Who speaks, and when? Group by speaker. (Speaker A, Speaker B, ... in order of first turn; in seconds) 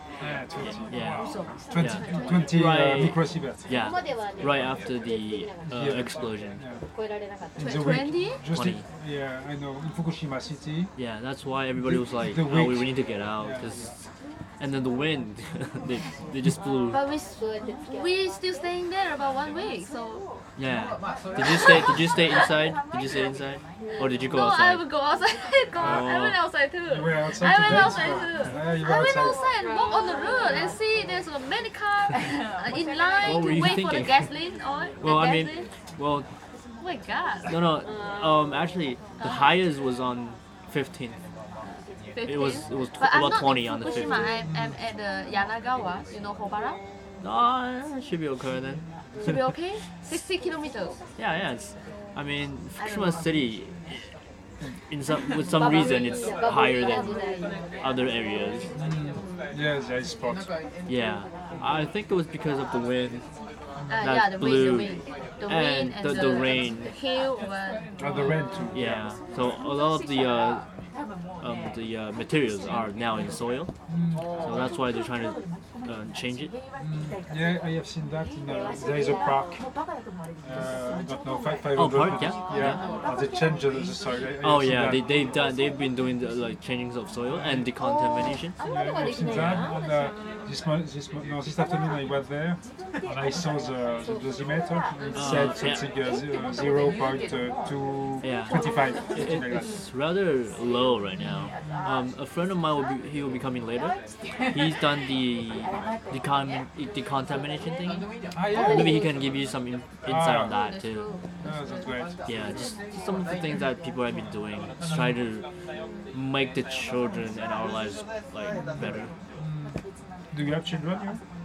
Speaker A: 0.2-3.6, 5.7-6.8, 7.6-10.9, 11.8-13.7, 26.9-29.4, 44.4-44.8, 58.8-60.5, 68.0-69.2, 73.9-74.3, 76.8-79.6, 80.4-85.3, 87.3-87.7, 88.7-99.8, 108.3-109.0, 110.1-110.5, 111.4-112.7, 119.4-119.8, 120.3-121.2
Speaker B: 0.9-6.6, 8.5-8.8, 11.0-14.0, 14.6-17.0, 20.6-24.9, 25.8-26.4, 33.2-34.3, 35.0-36.3, 37.5-41.2, 42.2-44.3, 47.2-49.3, 51.2-54.1, 54.9-57.2, 57.8-58.7, 60.9-63.2, 64.0-66.9, 68.7-70.7, 71.4-73.7, 74.4-76.5, 81.7-82.9, 84.4-88.6, 89.2-89.8, 95.1-95.9, 98.2-104.0, 104.5-111.1, 112.3-115.5, 116.1-119.1
Speaker C: 1.2-2.6, 7.6-8.4, 16.9-20.3, 24.3-35.7, 36.8-37.5, 39.2-39.5, 41.7-46.8, 49.2-51.0, 52.8-53.2, 57.0-57.3, 63.9-68.3, 110.5-111.2